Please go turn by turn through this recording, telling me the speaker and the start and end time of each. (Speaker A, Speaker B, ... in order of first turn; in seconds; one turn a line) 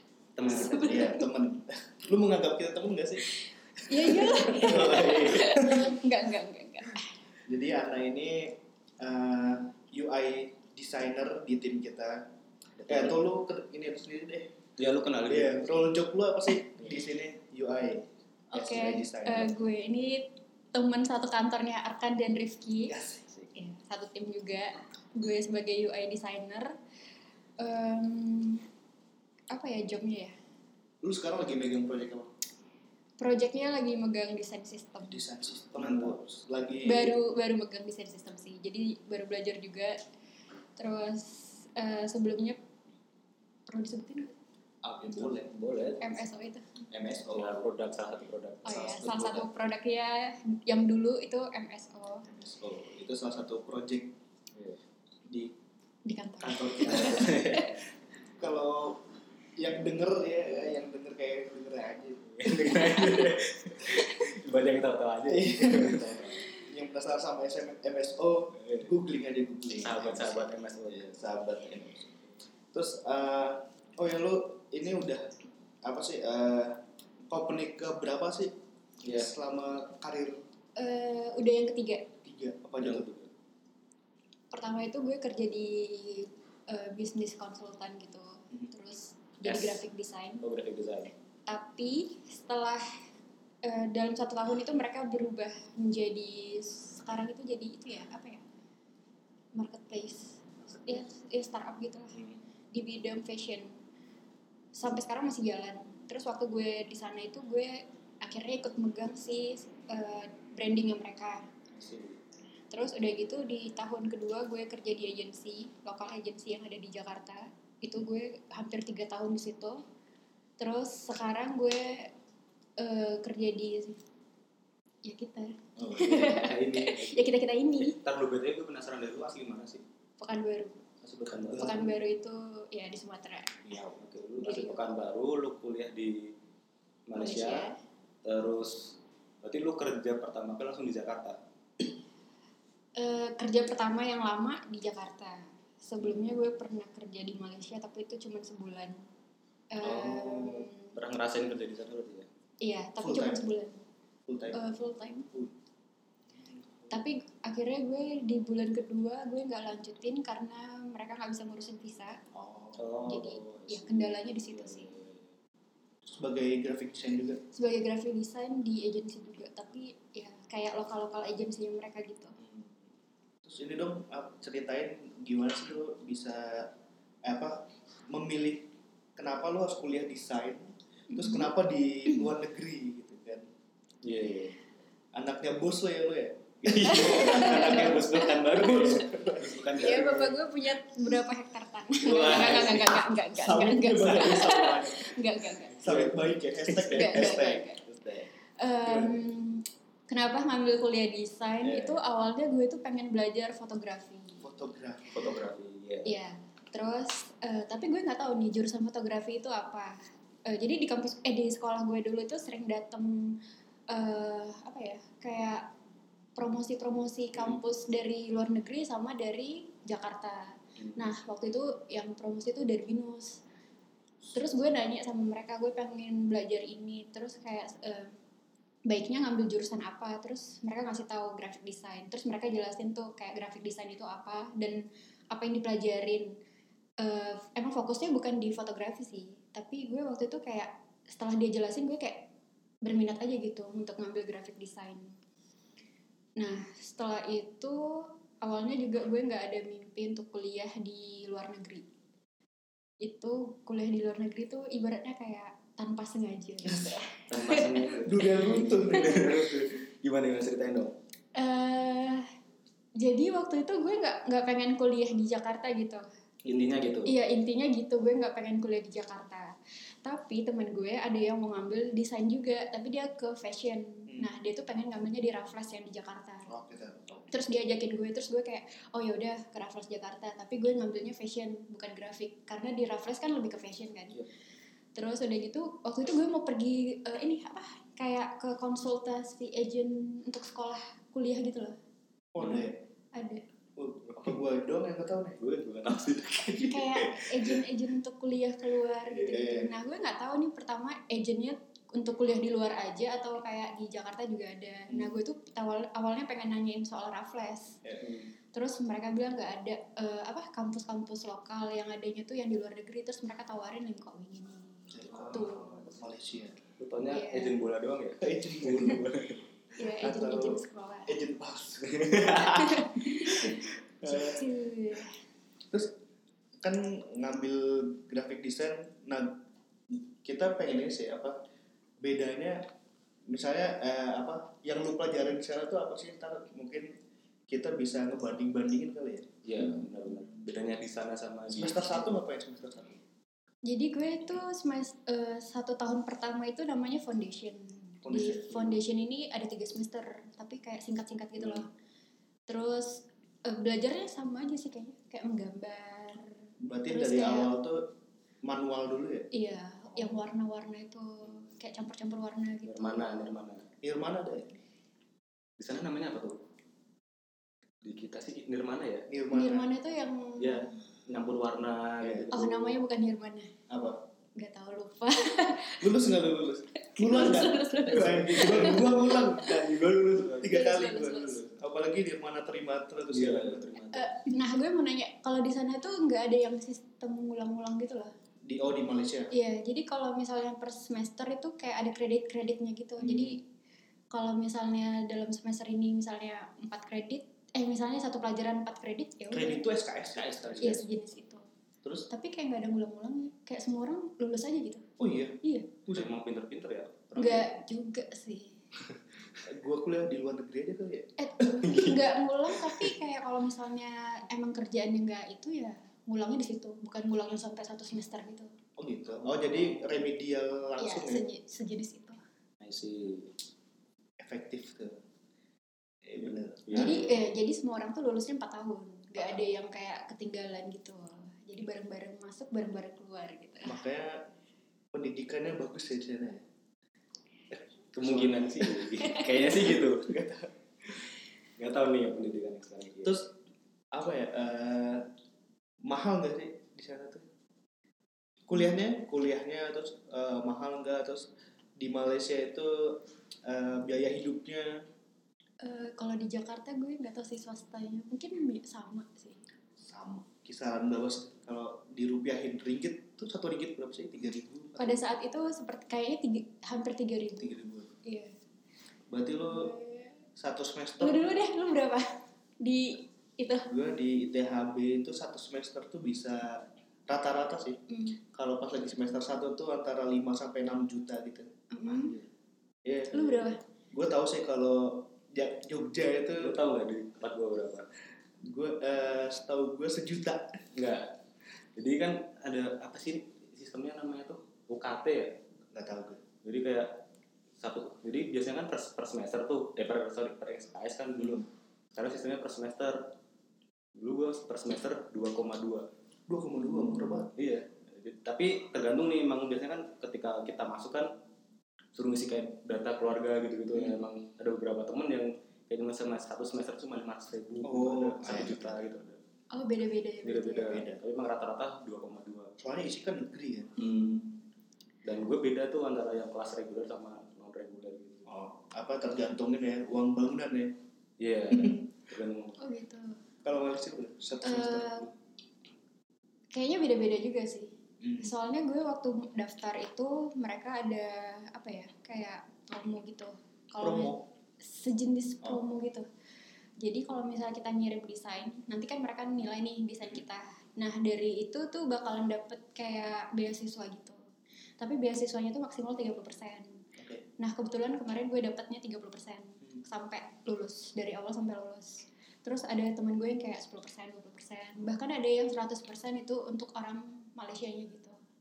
Speaker A: 0.3-1.1
Speaker B: 0.4-1.3
Speaker C: 0.4-5.9
Speaker B: 3.8-7.2
Speaker A: 4.6-5.5
Speaker C: 7.5-12.3
Speaker A: 12.8-13.2
Speaker C: 12.8-14.5
Speaker A: 14.8-15.8
Speaker C: 15.2-19.5
Speaker B: 18.5-23.0
Speaker C: 22.9-23.3
Speaker B: 23.5-26.7
Speaker B: 27.6-28.6
Speaker B: 29.5-30.3
Speaker C: 31.0-32.3
Speaker B: 33.2-35.2
Speaker C: 35.1-37.2
Speaker A: 35.8-36.2
Speaker B: 36.8-40.0
Speaker B: 40.8-42.6
Speaker B: 43.7-44.3
Speaker C: 44.8-46.1
Speaker A: 45.1-46.0
Speaker B: 46.0-46.9
Speaker C: 46.9-47.7
Speaker A: 47.3-49.4
Speaker B: 48.6-52.3
Speaker C: 48.7-49.4
Speaker C: 52.3-54.1
Speaker A: 54.5-54.8
Speaker C: 55.3-55.5
Speaker B: 56.0-57.7
Speaker C: 56.4-57.5
Speaker A: 56.6-57.8
Speaker C: 58.4-59.0
Speaker C: 59.6-63.1
Speaker A: 62.3-66.5
Speaker C: 65.2-72.1
Speaker A: 68.5-68.9
Speaker A: 69.8-71.1
Speaker C: 72.7-78.5
Speaker A: 79.0-79.3
Speaker C: 79.0-80.4
Speaker B: 80.8-82.1
Speaker C: 82.2-83.1
Speaker A: 82.8-83.3
Speaker B: 84.5-90.4
Speaker A: 89.4-89.8
Speaker A: 90.4-91.1
Speaker B: 91.5-92.8
Speaker B: 93.6-98.4
Speaker B: 99.5-102.2
Speaker A: 100.7-101.0
Speaker B: 102.7-103.7
Speaker B: 104.7-111.5
Speaker A: 111.7-112.2
Speaker B: 112.7-119.8
Speaker B: 120.6-122.1
Speaker B: 122.8-124.0
Speaker B: 125.0-128.0
Speaker C: 125.8-126.3
Speaker A: 125.9-129.8
Speaker B: 130.2-130.8
Speaker A: 131.0-131.8
Speaker C: 131.2-131.9
Speaker B: 131.5-133.6
Speaker C: 133.6-134.0
Speaker A: 134.0-136.3
Speaker B: 134.4-134.9
Speaker A: 137.1-137.7
Speaker B: 137.2-137.8
Speaker A: 138.2-141.4
Speaker B: 142.9-149.0
Speaker B: 149.7-150.9
Speaker C: 149.8-150.7
Speaker A: 150.8-152.3
Speaker B: 152.6-153.8
Speaker C: 153.0-153.4
Speaker C: 154.3-154.6
Speaker B: 154.5-155.3
Speaker B: 156.9-162.2
Speaker C: 162.3-163.1
Speaker A: 162.7-165.3
Speaker B: 163.1-164.9
Speaker C: 166.1-167.4
Speaker B: 167.5-172.3
Speaker A: 172.4-172.7
Speaker C: 173.4-176.7
Speaker C: 177.2-183.4
Speaker B: 181.1-181.5
Speaker A: 184.0-184.6
Speaker C: 185.1-189.9
Speaker A: 186.6-190.4
Speaker B: 186.9-188.4
Speaker B: 189.8-195.8
Speaker C: 192.0-195.1
Speaker A: 192.0-193.0
Speaker C: 195.8-197.7
Speaker A: 195.8-198.3
Speaker B: 196.9-197.8
Speaker B: 198.6-204.4
Speaker A: 198.8-199.1
Speaker C: 201.6-202.0
Speaker C: 204.4-205.4
Speaker A: 205.1-206.2
Speaker B: 206.1-215.7
Speaker B: 216.3-223.4
Speaker A: 220.8-221.1
Speaker B: 224.3-228.1
Speaker B: 228.9-236.3
Speaker B: 237.0-242.3
Speaker B: 242.8-245.1
Speaker B: 246.4-251.8
Speaker B: 253.0-259.3
Speaker C: 256.6-257.0
Speaker A: 257.3-261.0
Speaker C: 258.0-259.6
Speaker B: 261.3-262.3
Speaker B: 263.0-266.0
Speaker A: 266.4-267.1
Speaker B: 267.1-276.5
Speaker C: 274.1-274.3
Speaker C: 276.5-277.3
Speaker B: 277.3-284.2
Speaker B: 284.9-291.8
Speaker C: 292.3-292.8
Speaker A: 292.4-292.7
Speaker B: 293.1-293.4
Speaker C: 293.8-295.4
Speaker A: 294.1-294.4
Speaker A: 295.4-297.6
Speaker B: 296.7-307.8
Speaker C: 299.1-299.8
Speaker A: 308.0-308.3
Speaker B: 308.5-315.9
Speaker C: 314.9-316.6
Speaker A: 316.8-319.4
Speaker B: 317.1-317.6
Speaker C: 318.2-319.1
Speaker B: 319.8-321.2
Speaker C: 320.0-322.4
Speaker A: 321.8-323.8
Speaker B: 322.5-325.1
Speaker C: 324.0-324.4
Speaker C: 325.7-325.9
Speaker C: 326.6-329.4
Speaker C: 329.9-331.4
Speaker C: 332.0-332.6
Speaker C: 333.3-336.9
Speaker C: 337.5-339.9
Speaker A: 339.4-342.1
Speaker C: 341.5-343.0
Speaker B: 343.6-351.7
Speaker C: 348.0-348.8
Speaker B: 352.5-357.5
Speaker C: 356.6-357.9
Speaker C: 358.4-359.3
Speaker B: 359.3-363.3
Speaker A: 362.6-363.6
Speaker C: 363.8-364.6
Speaker A: 365.6-366.4
Speaker A: 367.8-369.1
Speaker C: 369.1-369.7
Speaker B: 369.3-370.7
Speaker A: 370.4-372.8
Speaker C: 372.0-372.3
Speaker B: 372.3-373.5
Speaker C: 373.7-374.0
Speaker B: 374.4-376.0
Speaker C: 375.8-383.7
Speaker B: 376.8-379.6
Speaker A: 378.0-380.6
Speaker B: 380.4-381.4
Speaker A: 383.1-384.1
Speaker B: 383.9-388.1
Speaker C: 388.4-389.3
Speaker B: 389.3-393.4
Speaker C: 393.0-393.4
Speaker B: 394.1-399.7
Speaker C: 399.3-400.8
Speaker A: 400.1-400.9
Speaker B: 400.6-401.4
Speaker C: 401.8-402.1
Speaker B: 402.1-404.9
Speaker C: 405.0-406.1
Speaker B: 405.4-405.7
Speaker A: 405.9-407.5
Speaker B: 407.1-408.6
Speaker C: 409.4-411.7
Speaker B: 411.2-418.5
Speaker A: 411.6-412.0
Speaker C: 418.8-421.2
Speaker A: 419.0-419.9
Speaker B: 420.8-422.2
Speaker A: 422.6-423.3
Speaker C: 424.2-425.0
Speaker C: 426.0-427.1
Speaker A: 426.6-427.1
Speaker B: 426.7-433.8
Speaker C: 433.6-434.2
Speaker C: 434.9-436.4
Speaker A: 437.9-440.1
Speaker C: 438.0-440.5
Speaker A: 441.6-443.2
Speaker C: 443.0-443.3
Speaker C: 443.9-445.1
Speaker C: 445.8-447.3
Speaker C: 448.5-454.8
Speaker B: 455.6-459.4
Speaker C: 459.8-465.0
Speaker B: 464.8-468.3
Speaker C: 467.4-467.9
Speaker C: 469.1-469.7
Speaker B: 469.5-470.1
Speaker C: 470.4-471.3
Speaker B: 471.0-473.7
Speaker C: 473.5-477.8
Speaker B: 477.9-478.2
Speaker C: 478.3-482.2
Speaker B: 481.7-482.1
Speaker C: 482.8-486.6
Speaker B: 483.1-483.6
Speaker A: 486.4-487.9
Speaker C: 488.4-490.7
Speaker A: 490.7-491.2
Speaker A: 491.8-495.4
Speaker C: 495.7-496.2
Speaker A: 496.4-497.0
Speaker A: 497.6-503.1
Speaker A: 504.0-505.9
Speaker C: 506.3-507.3
Speaker A: 507.3-511.1
Speaker A: 511.9-519.2
Speaker C: 517.6-518.8
Speaker B: 519.5-520.8
Speaker A: 520.2-522.5
Speaker C: 520.7-521.0
Speaker C: 522.6-523.8
Speaker A: 523.8-524.2
Speaker B: 523.8-524.3
Speaker A: 525.0-528.3
Speaker C: 528.3-530.8
Speaker A: 531.2-532.6
Speaker C: 531.5-531.8
Speaker B: 532.6-533.2
Speaker C: 533.4-535.1
Speaker B: 534.4-535.1
Speaker B: 536.5-546.1
Speaker C: 538.0-538.3
Speaker C: 543.8-544.2
Speaker B: 546.8-554.2
Speaker B: 554.8-556.8
Speaker C: 557.0-557.2
Speaker B: 557.4-568.2